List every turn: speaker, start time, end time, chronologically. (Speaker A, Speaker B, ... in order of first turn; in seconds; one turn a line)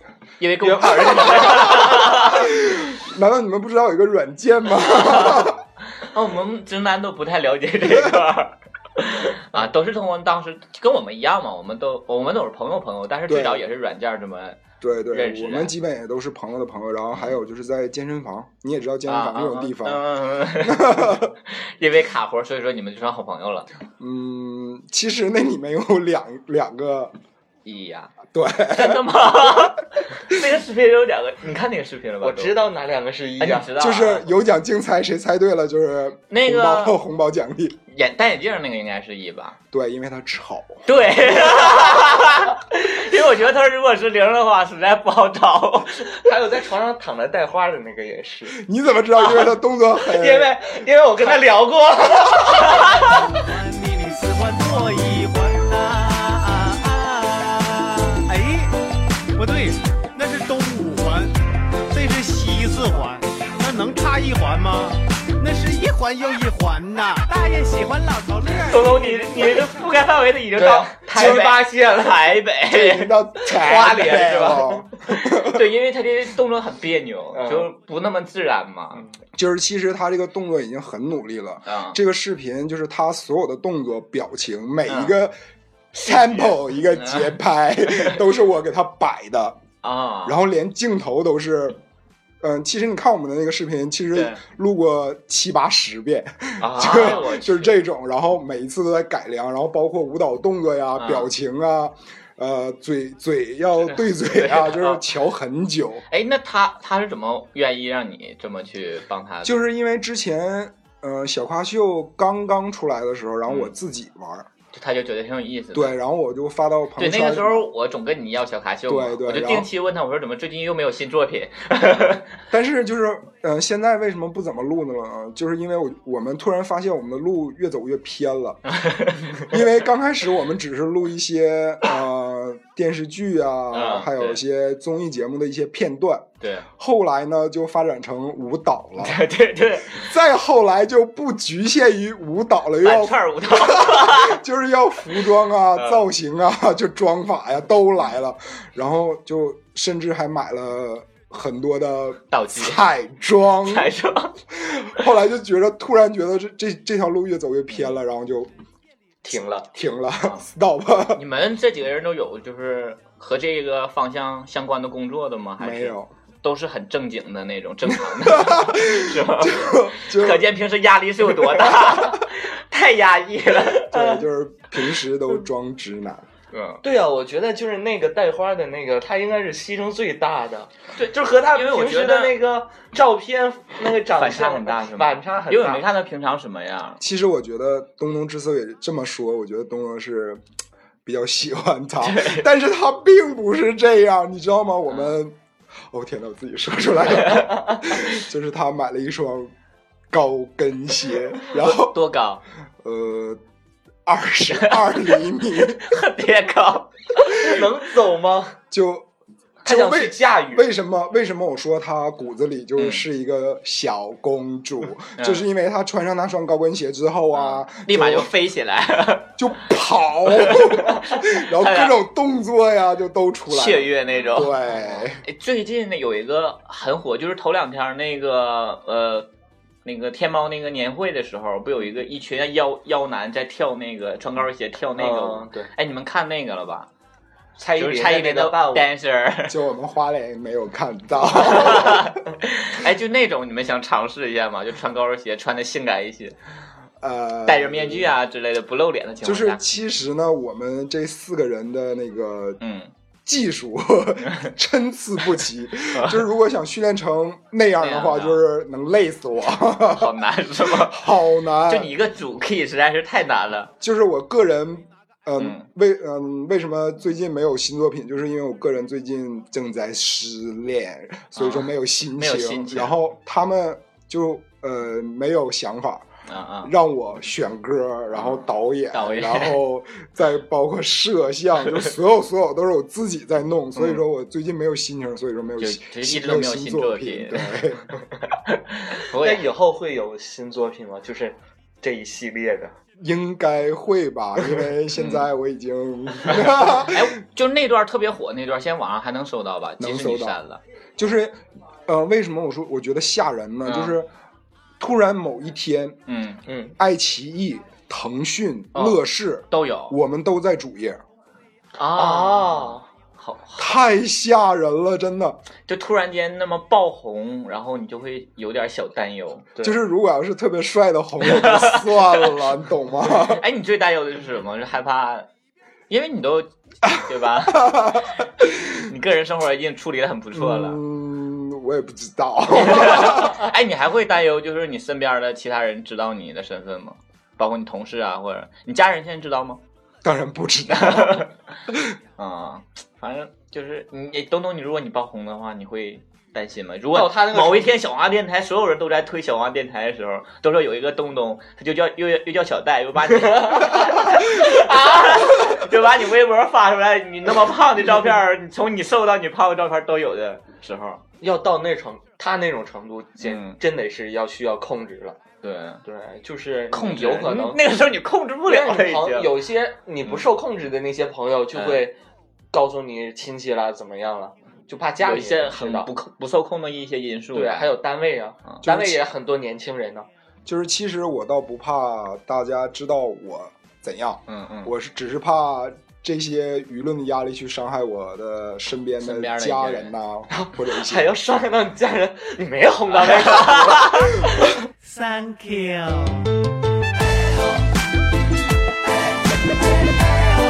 Speaker A: 0.4-2.5
Speaker B: 0.6-2.0
Speaker C: 1.1-5.6
Speaker A: 4.8-15.7
Speaker C: 13.3-13.6
Speaker C: 14.8-20.0
Speaker A: 19.1-23.7
Speaker C: 20.6-21.3
Speaker C: 24.0-27.1
Speaker A: 27.6-28.1
Speaker C: 28.3-29.7
Speaker A: 28.7-32.6
Speaker B: 32.2-33.7
Speaker A: 33.4-34.3
Speaker C: 33.8-37.8
Speaker A: 36.3-37.0
Speaker A: 37.9-39.6
Speaker C: 39.7-40.9
Speaker A: 40.9-46.3
Speaker B: 46.2-48.6
Speaker C: 48.5-50.5
Speaker B: 49.2-49.5
Speaker B: 50.0-52.9
Speaker D: 53.0-58.8
Speaker D: 59.4-69.7
Speaker A: 68.6-73.2
Speaker B: 70.6-72.4
Speaker C: 71.2-71.5
Speaker C: 72.7-75.6
Speaker B: 73.5-74.8
Speaker A: 75.1-79.0
Speaker B: 77.3-77.7
Speaker C: 79.3-85.3
Speaker A: 81.7-82.0
Speaker A: 84.9-85.2
Speaker C: 85.9-89.6
Speaker A: 86.0-87.4
Speaker A: 89.8-90.4
Speaker C: 90.2-91.8
Speaker C: 92.4-106.1
Speaker A: 94.1-94.4
Speaker A: 96.6-97.8
Speaker B: 96.9-97.2
Speaker A: 101.0-101.3
Speaker A: 103.8-105.1
Speaker A: 106.1-109.6
Speaker C: 109.4-114.5
Speaker A: 113.5-113.7
Speaker A: 114.7-116.0
Speaker C: 115.7-117.7
Speaker A: 117.0-122.3
Speaker C: 118.9-119.7
Speaker C: 122.5-128.6
Speaker A: 128.7-129.5
Speaker C: 129.4-139.2
Speaker A: 133.7-134.4
Speaker A: 136.4-136.7
Speaker A: 139.0-140.1
Speaker C: 139.9-153.9
Speaker A: 142.8-144.4
Speaker A: 145.8-146.0
Speaker A: 152.3-152.8
Speaker A: 153.7-154.3
Speaker C: 154.5-158.5
Speaker B: 159.2-159.7
Speaker C: 159.7-161.2
Speaker A: 161.2-173.9
Speaker C: 165.6-166.1
Speaker C: 167.9-170.5
Speaker C: 171.8-172.2
Speaker C: 173.9-176.3
Speaker B: 173.9-174.2
Speaker A: 176.5-176.8
Speaker B: 176.8-185.9
Speaker A: 181.0-182.3
Speaker A: 184.1-187.0
Speaker C: 187.0-190.4
Speaker C: 191.1-195.4
Speaker A: 192.0-192.4
Speaker A: 194.9-195.2
Speaker C: 195.9-199.5
Speaker C: 200.1-202.0
Speaker A: 201.5-202.4
Speaker C: 202.8-203.4
Speaker C: 204.1-205.8
Speaker A: 204.6-205.0
Speaker A: 205.8-207.6
Speaker B: 207.4-208.6
Speaker C: 208.7-209.1
Speaker B: 209.7-210.7
Speaker C: 209.7-218.3
Speaker A: 212.8-213.1
Speaker A: 215.2-215.4
Speaker A: 217.3-219.4
Speaker C: 219.4-225.2
Speaker A: 220.3-222.0
Speaker A: 223.5-224.6
Speaker A: 225.2-229.3
Speaker A: 229.8-236.9
Speaker B: 235.0-235.7
Speaker B: 237.6-238.9
Speaker A: 237.8-239.6
Speaker C: 239.5-242.1
Speaker A: 241.3-246.4
Speaker C: 247.0-248.1
Speaker A: 247.5-249.6
Speaker C: 249.2-252.6
Speaker A: 252.6-252.9
Speaker C: 253.2-260.1
Speaker A: 255.9-256.2
Speaker A: 257.8-258.4
Speaker A: 259.9-261.1
Speaker C: 260.7-261.9
Speaker A: 261.7-263.7
Speaker C: 263.8-276.1
Speaker A: 265.4-265.7
Speaker A: 271.4-272.9
Speaker A: 276.3-276.7
Speaker C: 276.6-287.9
Speaker A: 278.1-279.6
Speaker A: 283.8-284.0
Speaker A: 285.6-287.6
Speaker A: 288.5-289.5
Speaker B: 289.1-292.7
Speaker C: 293.0-297.1
Speaker A: 294.9-295.3
Speaker A: 296.7-300.6
Speaker C: 299.8-300.4
Speaker C: 301.0-304.1
Speaker A: 303.6-304.0
Speaker C: 304.8-306.0
Speaker A: 306.1-306.4
Speaker B: 306.5-306.8
Speaker C: 306.8-311.0
Speaker A: 308.7-310.0
Speaker A: 311.8-313.8
Speaker B: 311.9-312.8
Speaker C: 313.6-315.4
Speaker A: 315.7-319.5
Speaker C: 319.6-323.4
Speaker A: 321.2-322.4
Speaker A: 323.3-325.3
Speaker A: 325.9-328.1
Speaker C: 326.9-328.8
Speaker A: 328.7-330.8
Speaker C: 330.3-333.5
Speaker A: 332.5-339.6
Speaker C: 340.0-341.9
Speaker A: 340.7-341.3
Speaker A: 342.2-361.0
Speaker B: 346.9-347.7
Speaker B: 353.1-355.6
Speaker B: 361.2-365.2
Speaker A: 363.2-363.6
Speaker A: 365.4-365.8
Speaker B: 365.9-367.6
Speaker A: 366.7-369.4
Speaker B: 368.5-372.0
Speaker A: 371.5-371.8
Speaker B: 372.5-375.9
Speaker A: 375.0-377.7
Speaker B: 377.3-380.1
Speaker C: 378.6-379.0
Speaker C: 380.5-391.1
Speaker A: 384.3-384.7
Speaker A: 389.0-389.9
Speaker B: 390.3-394.6
Speaker D: 394.8-396.3